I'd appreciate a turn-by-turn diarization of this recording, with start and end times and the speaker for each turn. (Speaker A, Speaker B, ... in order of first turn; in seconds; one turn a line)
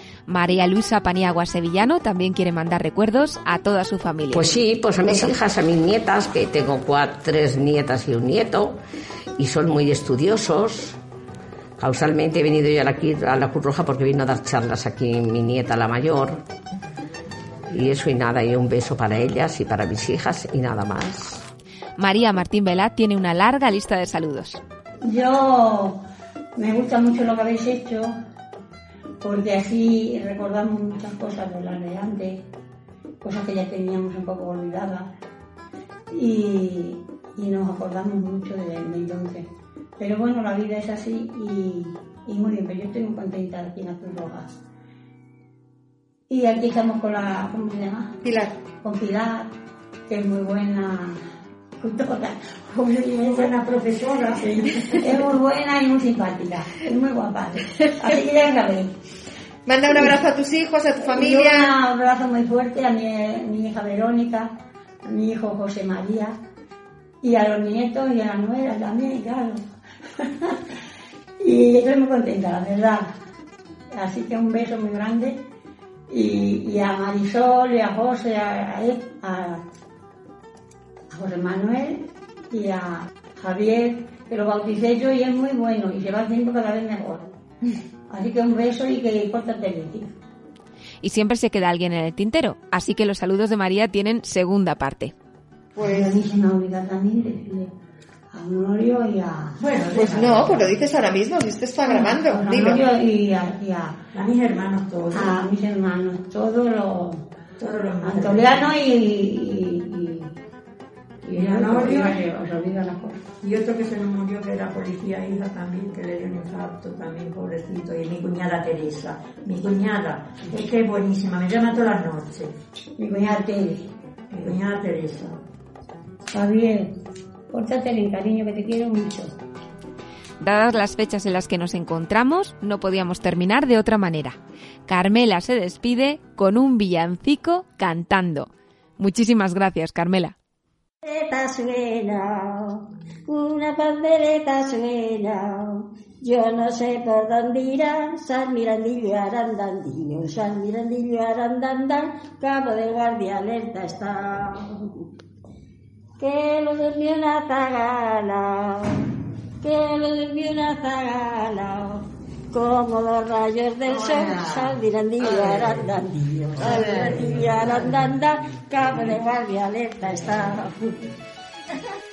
Speaker A: 0.3-4.5
Speaker B: 4.3-8.8
Speaker B: 9.4-11.0
Speaker B: 11.8-16.4
Speaker B: 17.7-21.4
Speaker A: 22.0-24.6
Speaker C: 25.0-26.0
Speaker C: 26.6-28.1
Speaker C: 29.2-32.5
Speaker C: 33.2-35.1
Speaker C: 36.1-44.6
Speaker C: 46.3-48.1
Speaker D: 48.2-48.5
Speaker C: 48.8-49.5
Speaker C: 50.1-51.2
Speaker C: 51.8-53.5
Speaker E: 53.2-55.0
Speaker C: 54.9-58.9
Speaker D: 59.6-61.7
Speaker C: 59.9-60.1
Speaker C: 61.0-64.5
Speaker C: 65.0-66.3
Speaker C: 67.2-69.6
Speaker C: 71.4-73.1
Speaker C: 73.9-75.4
Speaker C: 76.1-79.6
Speaker C: 81.1-87.3
Speaker C: 88.1-90.1
Speaker A: 91.0-95.1
Speaker D: 95.8-96.2
Speaker C: 95.8-97.7
Speaker C: 98.3-99.6
Speaker E: 99.6-100.7
Speaker D: 99.9-102.8
Speaker C: 100.1-100.6
Speaker C: 101.8-104.0
Speaker E: 104.1-105.3
Speaker C: 105.1-107.2
Speaker E: 107.6-108.7
Speaker C: 108.0-110.3
Speaker C: 111.2-113.2
Speaker E: 111.3-112.2
Speaker E: 113.4-122.5
Speaker C: 123.0-123.9
Speaker E: 124.3-125.4
Speaker C: 126.3-126.9
Speaker C: 127.5-129.3
Speaker A: 130.4-140.3
Speaker F: 141.0-154.8
Speaker F: 156.2-159.0
Speaker F: 159.6-171.0